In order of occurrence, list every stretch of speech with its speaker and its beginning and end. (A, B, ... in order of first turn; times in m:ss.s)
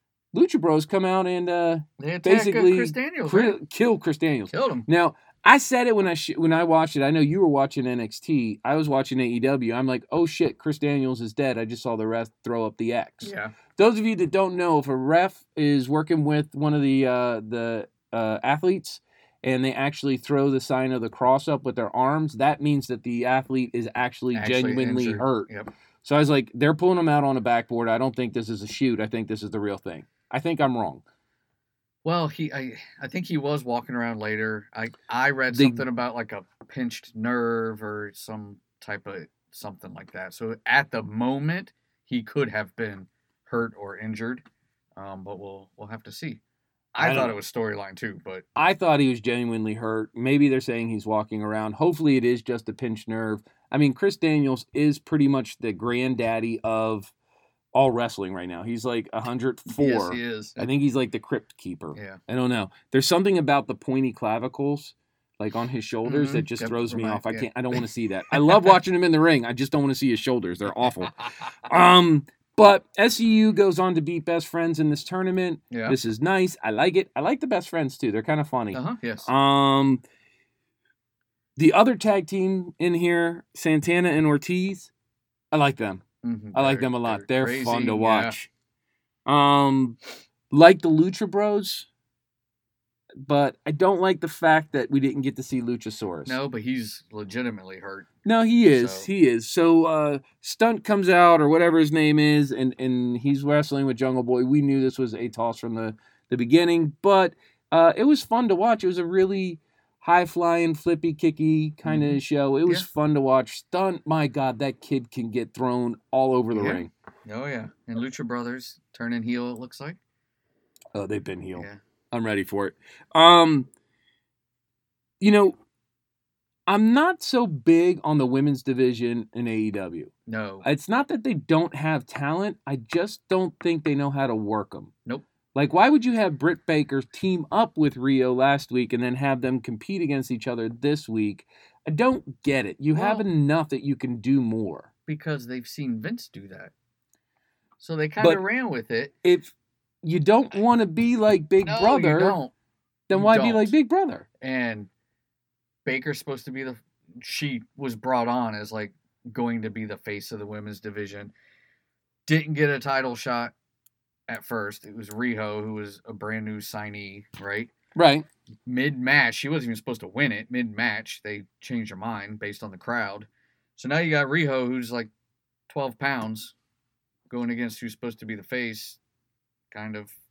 0:00.3-0:25.5 A
0:02.0-0:03.6 B
0:04.5-0:04.8 B
0:13.2-0:13.5 B
0:24.3-0:25.7 B
0:26.0-0:31.0 A
0:32.0-0:44.4 B
0:35.5-0:35.8 A
0:45.0-0:46.4 B
0:46.9-0:48.4 B
0:47.0-0:47.4 A
0:48.6-0:57.1 A
0:57.7-1:20.0 A
0:59.7-1:00.7 B
1:06.0-1:08.7 B
1:15.7-1:16.0 B
1:18.7-1:19.3 B
1:21.6-1:24.9 A
1:25.5-1:28.5 A
1:26.2-1:28.3 B
1:29.2-1:30.0 A
1:30.5-1:31.9 A
1:33.2-1:36.4 A
1:36.2-1:38.1 B
1:38.2-1:56.9 A
1:38.6-1:39.1 B
1:51.8-1:52.8 B
1:56.5-2:00.0 B
2:00.9-2:03.7 A
2:05.2-2:05.6 A
2:06.7-2:10.1 A
2:10.3-2:10.6 B
2:10.6-2:14.9 A
2:15.5-2:24.9 A
2:22.9-2:23.2 B
2:25.1-2:26.7 B
2:27.8-2:29.1 B
2:29.2-2:29.5 A
2:30.0-2:32.4 A
2:31.6-2:32.5 B
2:33.1-2:34.2 A
2:33.1-2:33.7 B
2:34.4-2:34.9 B
2:35.8-2:41.3 B
2:42.2-2:43.5 B
2:44.3-2:47.7 B
2:48.0-2:48.2 A
2:48.6-2:55.1 B
2:55.7-2:56.5 B
2:57.3-2:59.0 B
2:59.7-3:00.1 B